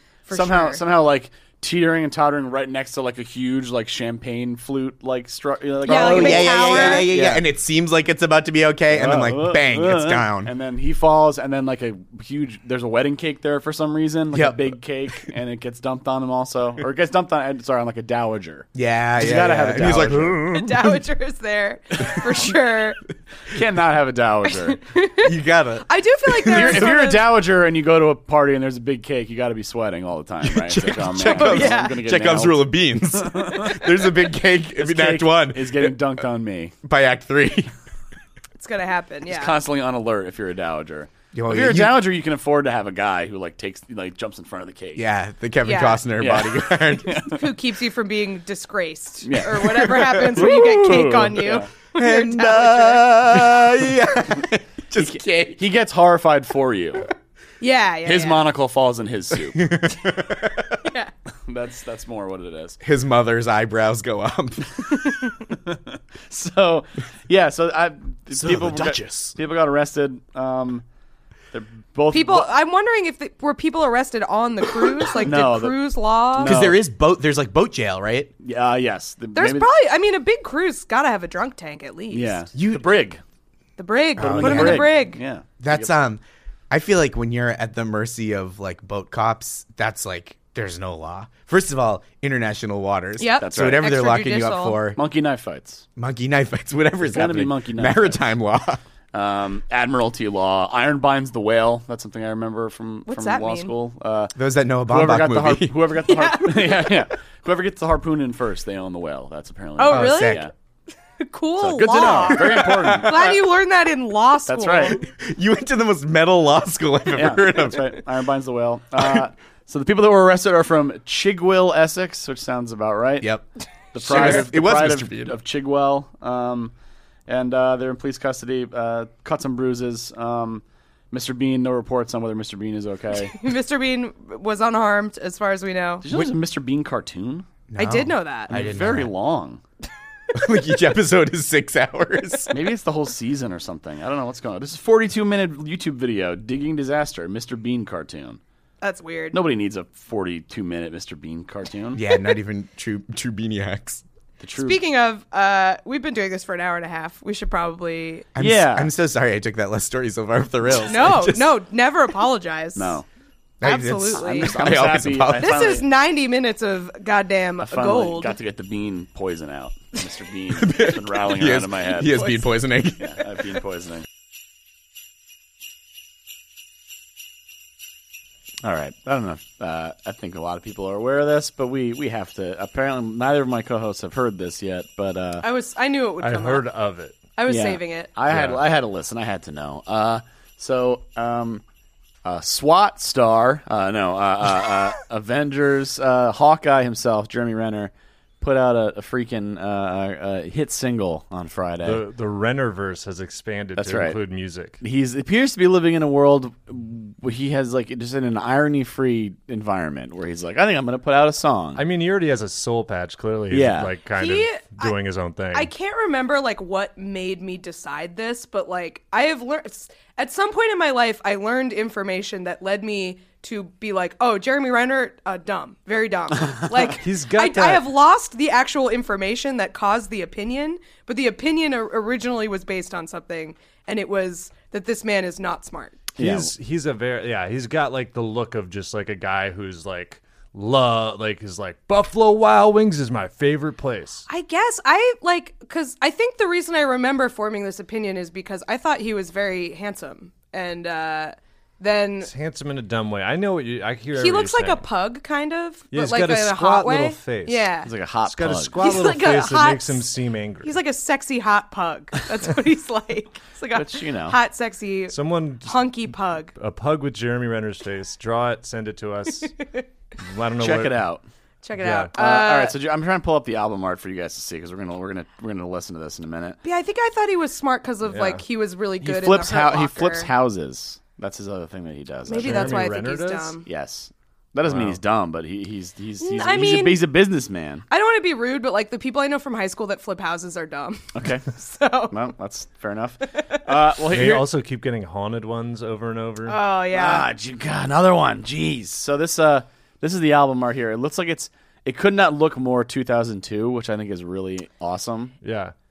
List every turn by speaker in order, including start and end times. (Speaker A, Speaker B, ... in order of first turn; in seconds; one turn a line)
Speaker A: 0.3-0.8
Speaker B: 0.3-7.5
Speaker A: 5.9-7.1
Speaker C: 5.9-10.5
Speaker B: 8.9-20.5
Speaker C: 14.3-14.8
Speaker C: 18.8-20.9
Speaker A: 20.5-23.0
Speaker B: 23.5-24.8
Speaker A: 24.7-27.3
Speaker C: 25.2-26.9
Speaker B: 26.4-32.7
Speaker C: 30.5-36.0
Speaker A: 31.2-31.9
Speaker B: 33.2-33.7
Speaker B: 34.8-36.8
Speaker C: 36.8-37.7
Speaker A: 38.6-39.6
Speaker B: 39.3-45.0
Speaker C: 41.3-42.0
Speaker C: 45.0-47.3
Speaker A: 45.6-46.0
Speaker B: 46.2-47.4
Speaker A: 47.2-53.1
Speaker B: 49.2-51.7
Speaker C: 50.3-51.0
Speaker C: 52.0-55.6
Speaker B: 55.0-57.1
Speaker A: 57.6-58.4
Speaker B: 58.0-59.7
Speaker C: 59.5-60.8
Speaker A: 60.9-61.1
Speaker B: 61.5-62.8
Speaker C: 62.8-65.0
Speaker B: 65.7-70.8
Speaker C: 68.4-69.3
Speaker B: 71.5-72.5
Speaker A: 72.1-76.5
Speaker B: 75.2-75.8
Speaker B: 76.3-76.8
Speaker C: 76.4-78.3
Speaker B: 78.4-79.7
Speaker A: 79.3-82.5
Speaker B: 82.1-83.2
Speaker C: 82.5-82.9
Speaker A: 83.8-85.2
Speaker C: 84.2-85.0
Speaker B: 84.2-85.9
Speaker C: 85.6-95.0
Speaker A: 93.2-94.8
Speaker B: 93.4-93.9
Speaker B: 95.0-95.8
Speaker C: 96.0-98.8
Speaker B: 97.0-98.2
Speaker B: 99.1-104.3
Speaker A: 103.1-103.7
Speaker C: 104.3-105.8
Speaker B: 104.9-110.5
Speaker A: 106.1-106.9
Speaker A: 109.8-110.5
Speaker C: 109.9-110.5
Speaker A: 111.2-115.0
Speaker B: 111.6-113.3
Speaker C: 112.0-113.3
Speaker B: 114.5-115.0
Speaker C: 115.0-118.0
Speaker B: 117.1-123.3
Speaker C: 119.0-119.2
Speaker B: 123.9-126.7
Speaker C: 124.0-125.4
Speaker B: 127.3-133.4
Speaker A: 133.3-136.0
Speaker B: 136.0-137.5
Speaker C: 137.7-139.1
Speaker A: 137.8-138.5
Speaker B: 138.5-139.6
Speaker C: 140.3-142.6
Speaker B: 142.5-148.4
Speaker A: 148.8-149.4
Speaker B: 149.3-152.0
Speaker C: 151.9-154.0
Speaker B: 154.4-154.8
Speaker A: 154.6-158.2
Speaker C: 158.3-161.6
Speaker B: 158.4-158.9
Speaker A: 160.9-163.0
Speaker B: 162.8-163.1
Speaker C: 163.6-165.7
Speaker A: 163.6-164.5
Speaker B: 164.2-165.9
Speaker A: 165.4-168.4
Speaker B: 167.6-172.2
Speaker C: 170.6-173.4
Speaker B: 173.0-174.1
Speaker B: 178.6-185.5
Speaker A: 185.4-186.7
Speaker D: 186.2-187.3
Speaker A: 187.4-188.1
Speaker B: 187.5-191.6
Speaker D: 188.3-188.6
Speaker B: 192.2-202.1
Speaker D: 201.8-204.8
Speaker B: 203.8-204.2
Speaker B: 204.8-211.8
Speaker D: 211.8-215.7
Speaker B: 213.5-213.9
Speaker A: 214.2-215.0
Speaker A: 215.5-236.0
Speaker D: 227.0-227.9
Speaker B: 236.2-236.5
Speaker D: 236.2-244.2
Speaker A: 244.3-252.3
Speaker D: 252.2-254.8
Speaker A: 254.1-257.9
Speaker D: 255.9-257.7
Speaker B: 257.9-258.8
Speaker D: 258.2-260.8
Speaker A: 258.8-260.1
Speaker A: 260.6-266.5
Speaker B: 263.8-264.4
Speaker D: 265.1-265.9
Speaker D: 266.6-269.5
Speaker D: 270.2-271.0
Speaker B: 270.6-271.2
Speaker A: 271.6-272.8
Speaker D: 271.8-272.1
Speaker B: 272.1-276.6
Speaker A: 276.6-280.3
Speaker D: 278.1-278.4
Speaker B: 279.0-282.9
Speaker A: 282.3-283.6
Speaker D: 282.4-283.6
Speaker B: 283.6-287.9
Speaker D: 284.6-285.0
Speaker A: 286.2-287.1
Speaker A: 287.9-292.1
Speaker B: 291.1-291.5
Speaker B: 292.1-294.5
Speaker D: 294.1-296.6
Speaker A: 296.5-297.3
Speaker B: 296.9-305.3
Speaker D: 305.4-305.7